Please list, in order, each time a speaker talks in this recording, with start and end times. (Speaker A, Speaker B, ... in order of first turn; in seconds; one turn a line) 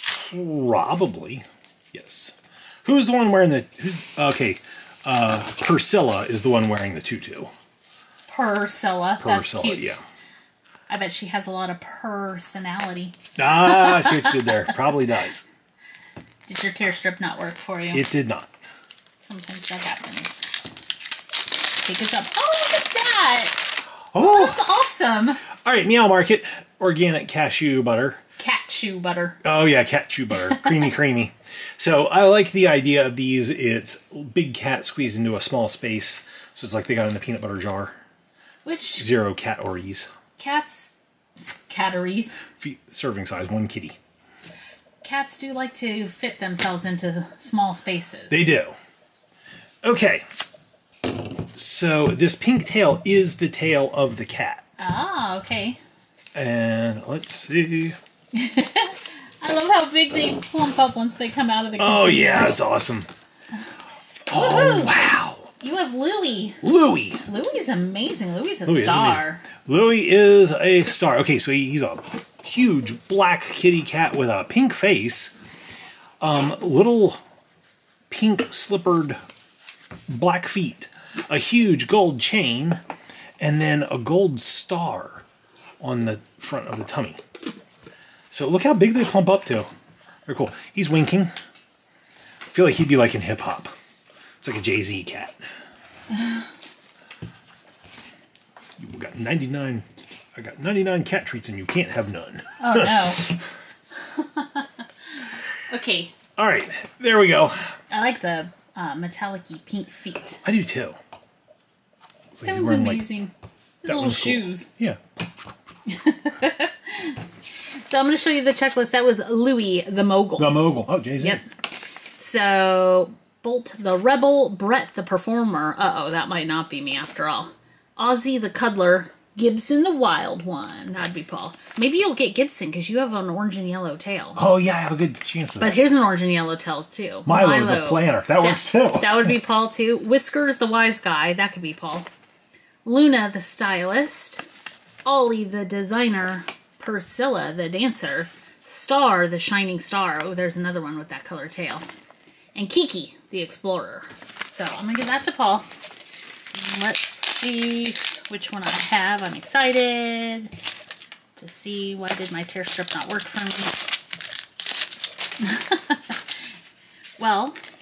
Speaker A: 0.3-7.5
Speaker B: 8.3-9.9
Speaker A: 9.2-10.0
Speaker B: 10.9-14.5
Speaker A: 13.4-15.4
Speaker B: 16.5-18.1
Speaker A: 17.9-18.5
Speaker B: 19.2-20.5
Speaker B: 21.8-25.4
Speaker A: 24.1-24.6
Speaker A: 25.6-28.2
Speaker B: 28.4-29.4
Speaker A: 29.4-38.0
Speaker B: 38.6-39.1
Speaker A: 39.0-40.1
Speaker B: 40.4-41.0
Speaker B: 41.7-42.4
Speaker A: 42.6-44.0
Speaker B: 45.0-48.5
Speaker A: 48.3-48.7
Speaker A: 49.8-50.2
Speaker A: 51.5-54.7
Speaker B: 54.8-55.8
Speaker A: 56.3-58.0
Speaker B: 58.3-62.7
Speaker A: 61.8-63.1
Speaker A: 64.3-65.5
Speaker B: 64.3-65.0
Speaker B: 65.6-66.6
Speaker A: 66.6-67.2
Speaker B: 67.2-69.4
Speaker A: 68.7-75.3
Speaker A: 76.2-77.2
Speaker A: 78.1-79.2
Speaker A: 80.1-82.8
Speaker A: 83.4-85.2
Speaker A: 85.8-87.2
Speaker A: 88.3-89.7
Speaker A: 90.2-91.3
Speaker A: 92.5-93.7
Speaker A: 94.4-95.4
Speaker A: 98.8-103.3
Speaker B: 102.6-103.4
Speaker B: 104.0-106.1
Speaker A: 106.4-107.7
Speaker B: 107.9-110.4
Speaker A: 110.4-111.0
Speaker A: 112.3-113.0
Speaker B: 112.4-114.7
Speaker A: 113.8-115.0
Speaker B: 115.9-117.2
Speaker B: 117.8-120.7
Speaker A: 120.4-121.4
Speaker B: 121.2-121.5
Speaker B: 122.2-134.4
Speaker A: 134.3-135.8
Speaker B: 135.6-142.1
Speaker A: 137.2-139.3
Speaker B: 142.8-144.4
Speaker B: 145.0-151.8
Speaker B: 152.5-155.7
Speaker B: 156.5-160.5
Speaker B: 161.3-163.9
Speaker B: 165.4-166.2
Speaker B: 167.2-167.6